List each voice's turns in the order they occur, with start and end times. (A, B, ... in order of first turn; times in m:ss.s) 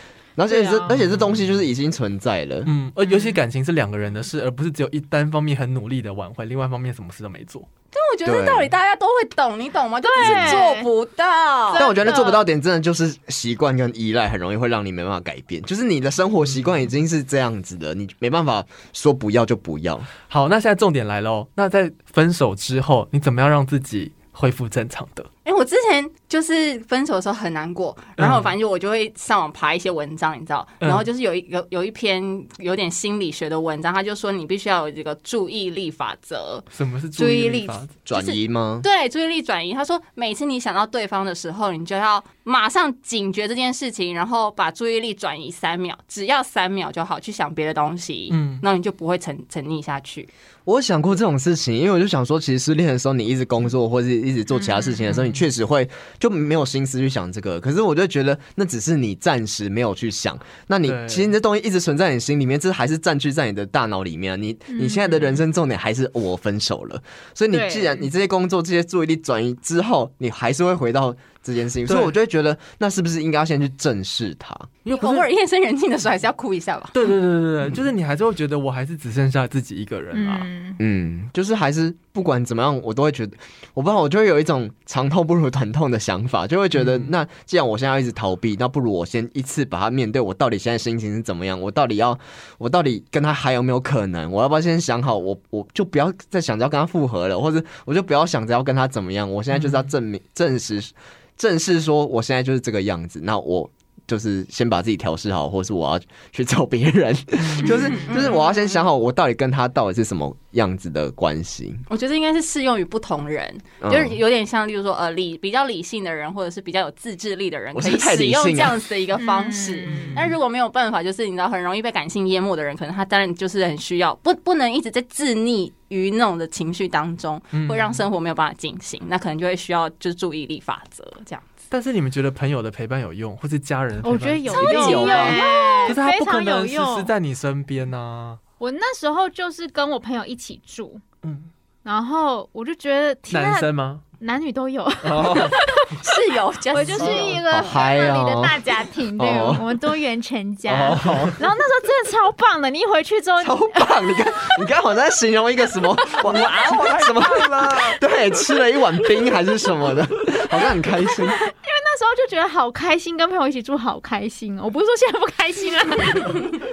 0:00.4-0:02.7 A
0:00.5-0:01.0 B
0:02.6-0:07.7 C
0:03.1-0:03.3 B
0:07.9-0:11.9 D
0:08.2-0:08.7 A
0:10.0-0:10.9 B
0:10.2-0:10.6 A
0:11.7-0:12.4 B
0:11.7-0:20.1 A
0:20.3-0:25.3 C
0:25.4-0:50.3 D
0:28.2-0:28.5 C
0:30.8-0:31.1 C
0:36.7-0:37.9 C
0:38.1-0:38.9 A
0:48.3-0:48.6 C
0:50.6-1:14.8 A
0:54.6-0:55.0 B
0:55.1-0:55.4 C
1:00.8-1:01.3 C
1:04.7-1:05.4 B
1:07.5-1:08.0 B
1:11.9-1:12.1 C
1:14.8-1:15.3 C
1:14.9-1:16.9 D
1:16.9-1:20.5 C
1:20.1-1:20.8 B
1:20.8-1:51.8 A
1:26.7-1:27.1 C
1:39.5-1:39.9 C
1:47.4-1:48.2 C
1:47.6-1:48.4 D
1:51.9-2:11.5 D
1:53.8-1:54.2 A
1:57.7-1:58.8 A
1:59.2-2:00.2 B
1:59.9-2:00.4 C
2:07.5-2:08.0 C
2:11.7-2:14.9 C
2:14.0-2:17.1 B
2:14.5-2:16.0 D
2:14.5-2:15.4 A
2:15.9-2:18.4 C
2:18.6-2:21.0 B
2:21.2-2:21.5 C
2:21.8-2:26.0 B
2:23.3-2:24.0 C
2:25.0-2:25.6 C
2:25.9-2:27.5 D
2:26.7-2:34.4 B
2:27.0-2:29.9 A
2:30.7-2:31.4 A
2:30.8-2:31.4 C
2:33.4-2:41.4 A
2:36.2-2:37.9 C
2:41.3-2:46.5 B